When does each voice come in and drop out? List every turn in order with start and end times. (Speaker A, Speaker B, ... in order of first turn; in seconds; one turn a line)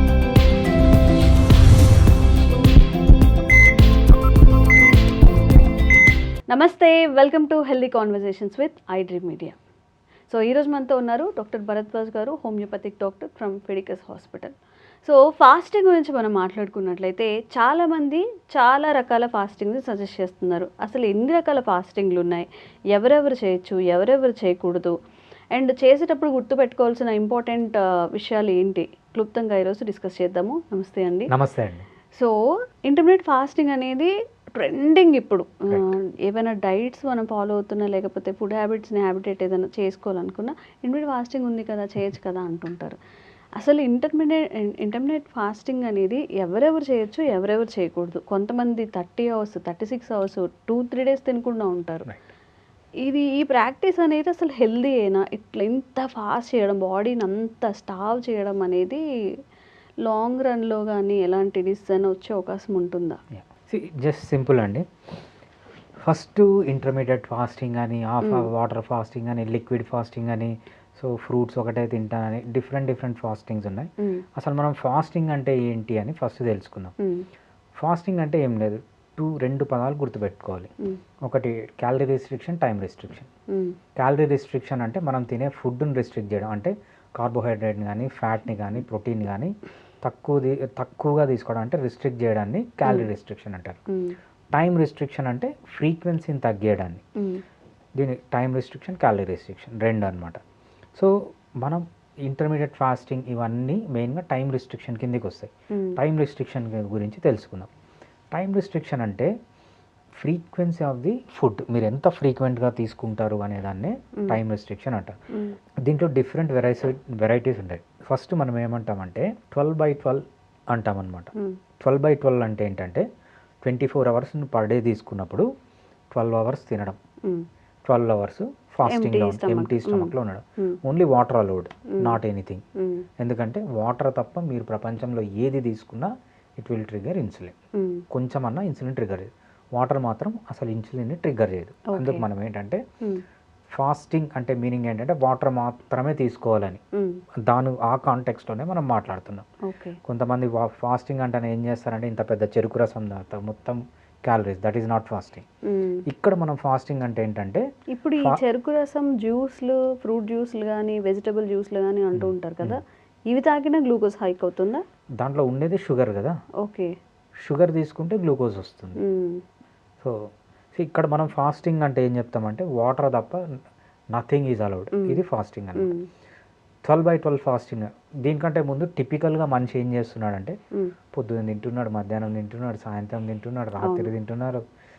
Speaker A: 6.5-9.6
Speaker A: 10.3-25.0
Speaker A: 25.5-31.3
Speaker B: 31.3-31.9
Speaker A: 32.1-43.0
Speaker A: 43.6-52.1
Speaker A: 53.0-59.0
Speaker A: 60.1-63.2
Speaker B: 63.3-64.9
Speaker B: 66.0-76.9
Speaker A: 77.0-77.3
Speaker B: 77.8-80.7
Speaker B: 81.2-83.3
Speaker B: 84.0-93.8
Speaker A: 93.9-94.2
Speaker B: 94.5-97.0
Speaker B: 98.0-100.4
Speaker B: 101.0-107.7
Speaker A: 105.7-106.0
Speaker B: 108.3-109.3
Speaker B: 110.2-115.1
Speaker B: 115.9-123.0
Speaker B: 123.6-125.5
Speaker B: 126.1-127.0
Speaker B: 127.9-132.6
Speaker A: 128.8-130.8
Speaker A: 132.8-133.1
Speaker B: 133.2-137.6
Speaker A: 137.8-138.0
Speaker B: 138.1-142.8
Speaker A: 141.9-142.2
Speaker B: 143.8-146.8
Speaker B: 147.5-149.5
Speaker A: 149.7-150.0
Speaker B: 150.1-155.4
Speaker A: 155.7-156.0
Speaker B: 156.1-157.7
Speaker A: 157.9-164.8
Speaker B: 162.1-162.8
Speaker B: 165.2-166.4
Speaker A: 166.6-166.9
Speaker B: 167.4-169.0
Speaker A: 169.0-169.4
Speaker B: 170.0-173.4
Speaker B: 174.1-175.9
Speaker A: 175.8-176.1
Speaker B: 176.9-180.6
Speaker B: 181.1-184.6
Speaker A: 183.8-184.1